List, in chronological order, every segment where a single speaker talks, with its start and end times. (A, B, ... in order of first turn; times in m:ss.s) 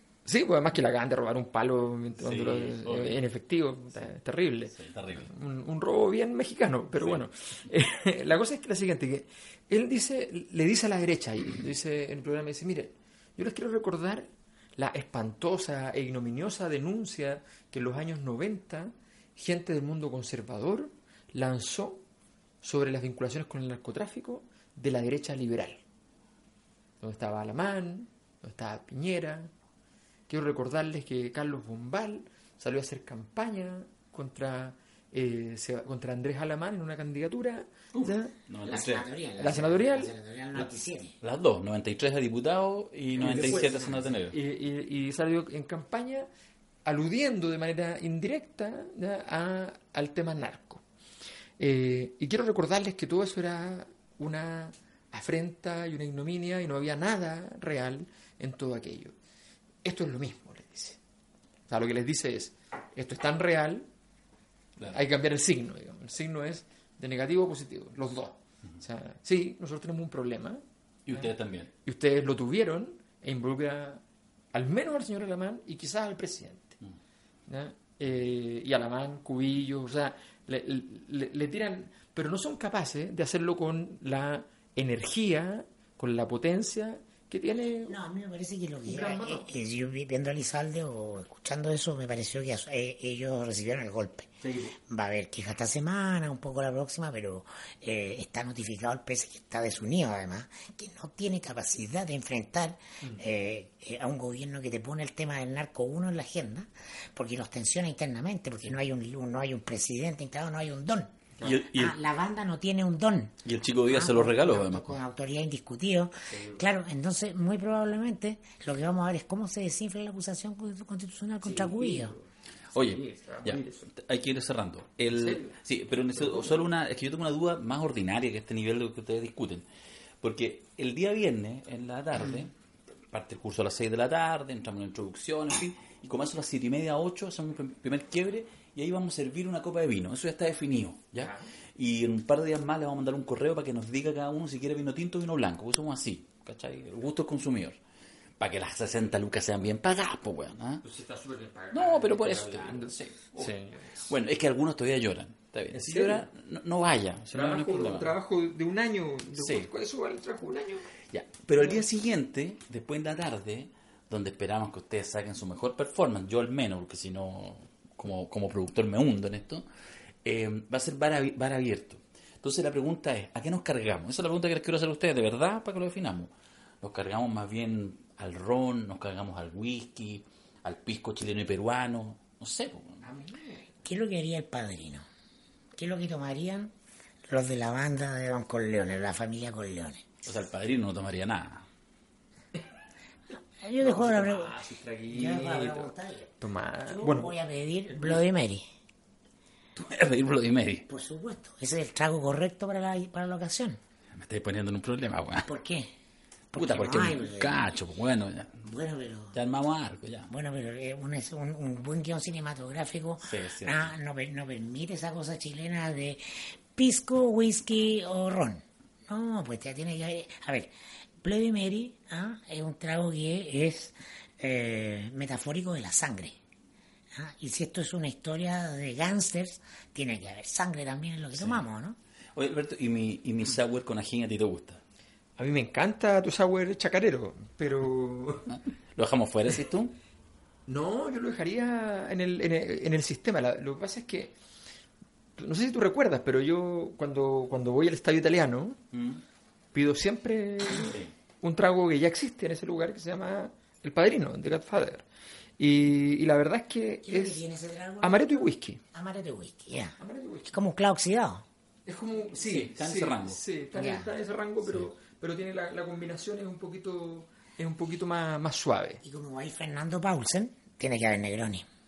0:00.3-0:22.0 A
0:02.2-0:03.2 B
0:04.8-0:05.3 B
0:22.6-0:25.8 A
0:27.0-0:29.5 A
0:30.3-0:38.3 A
0:38.0-0:39.0 B
0:38.6-0:41.2 C
0:39.4-0:40.1 A
0:41.2-0:44.4 B
0:43.2-0:46.3 A
0:43.2-0:44.2 C
0:46.8-0:50.8 A
0:51.6-0:59.1 A
0:59.8-1:01.0 A
1:01.7-1:03.9 A
1:04.9-1:11.3 A
1:11.1-1:11.7 B
1:11.8-1:14.0 A
1:14.5-1:16.8 A
1:17.5-1:28.0 A
1:27.8-1:51.2 C
1:28.9-1:29.5 A
1:34.4-1:34.7 A
1:51.4-1:52.0 B
1:51.7-2:02.1 C
1:53.4-1:55.0 B
1:56.3-1:56.6 A
2:01.4-2:03.9 A
2:02.7-2:09.6 B
2:05.1-2:05.6 A
2:06.1-2:06.6 A
2:10.2-2:12.5 B
2:13.1-2:27.8 B
2:21.2-2:21.5 A
2:28.4-2:30.8 B
2:30.8-2:34.0 A
2:31.7-2:38.2 B
2:35.7-2:36.3 A
2:37.3-2:40.9 A
2:39.4-2:39.7 B
2:41.1-2:49.7 B
2:50.2-3:03.0 B
3:03.0-3:05.0 C
3:05.8-3:06.7 C
3:07.3-3:10.1 C
3:10.2-3:11.7 B
3:13.6-3:14.6 C
3:13.8-3:17.4 A
3:15.1-3:18.7 C
3:17.9-3:18.2 A
3:19.8-3:20.9 B
3:20.9-3:23.8 C
3:24.1-3:25.5 B
3:25.4-3:25.9 C
3:26.5-3:27.7 C
3:26.6-3:28.6 B
3:28.6-3:29.4 C
3:29.3-3:30.3 B
3:30.3-3:40.7 C
3:33.2-3:33.9 B
3:41.2-3:46.4 C
3:47.1-3:52.0 C
3:51.4-3:51.6 B
3:52.4-3:54.8 B
3:55.4-3:58.6 A
3:58.5-4:00.0 B
4:00.7-4:04.4 A
4:05.4-4:08.8 A
4:08.9-4:09.2 B
4:09.7-4:15.0 A
4:10.8-4:11.1 B
4:15.6-4:17.4 A
4:17.0-4:18.2 C
4:18.0-4:18.8 A
4:18.9-4:21.4 C
4:20.0-4:20.6 A
4:21.9-4:29.0 A
4:22.4-4:23.4 B
4:23.7-4:24.1 C
4:29.0-4:31.6 C